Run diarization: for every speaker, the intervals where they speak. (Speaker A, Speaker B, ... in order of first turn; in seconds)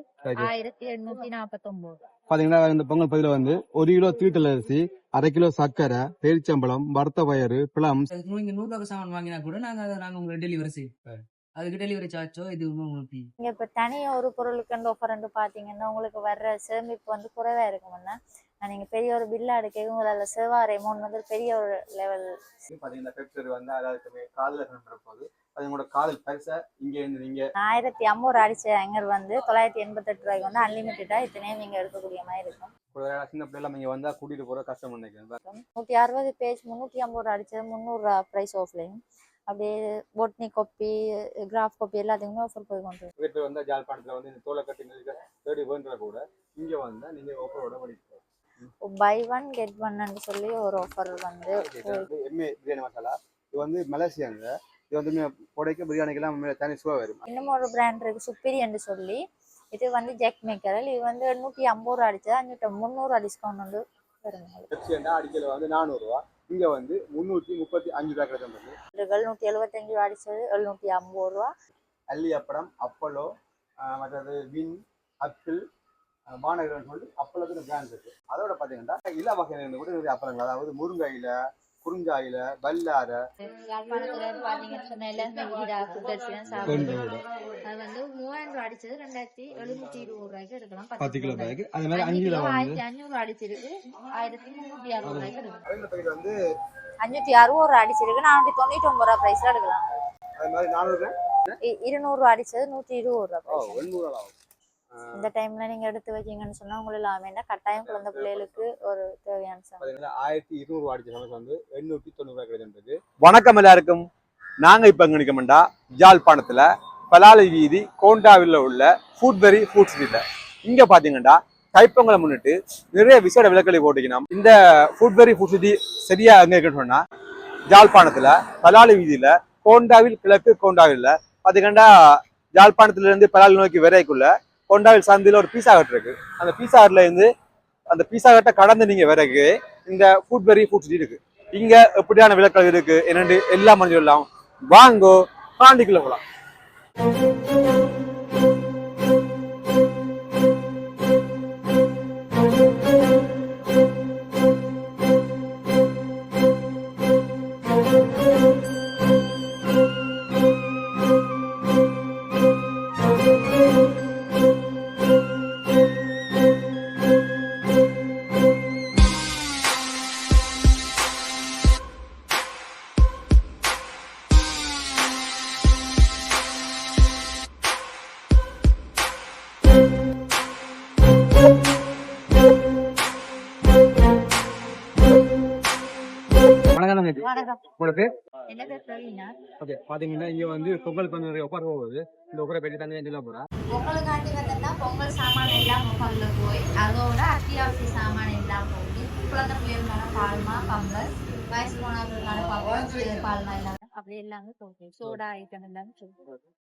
Speaker A: 0.2-0.5, 2.3-8.1, 22.7-27.5, 32.9-35.4, 43.2-48.7, 51.5-57.3, 64.7-68.8, 72.1-73.3, 73.8-75.6, 76.3-83.2, 86.6-87.2, 91.0-92.8, 95.0-96.3, 100.4-101.6, 103.5-104.3, 104.9-105.3, 107.8-108.7, 109.8-114.1, 114.6-127.0, 127.7-137.3, 137.9-146.2, 186.7-188.1, 189.6-193.5
Speaker B: 0.4-2.0, 13.4-22.3, 27.6-32.7, 35.4-43.1, 48.8-52.1, 57.3-59.2, 59.7-64.7, 68.9-71.5, 83.6-87.0, 87.7-95.6, 97.0-99.8, 101.6-103.9, 105.2-109.9, 187.2-187.6, 188.5-189.3, 193.7-206.1
Speaker C: 8.1-10.9, 11.6-13.3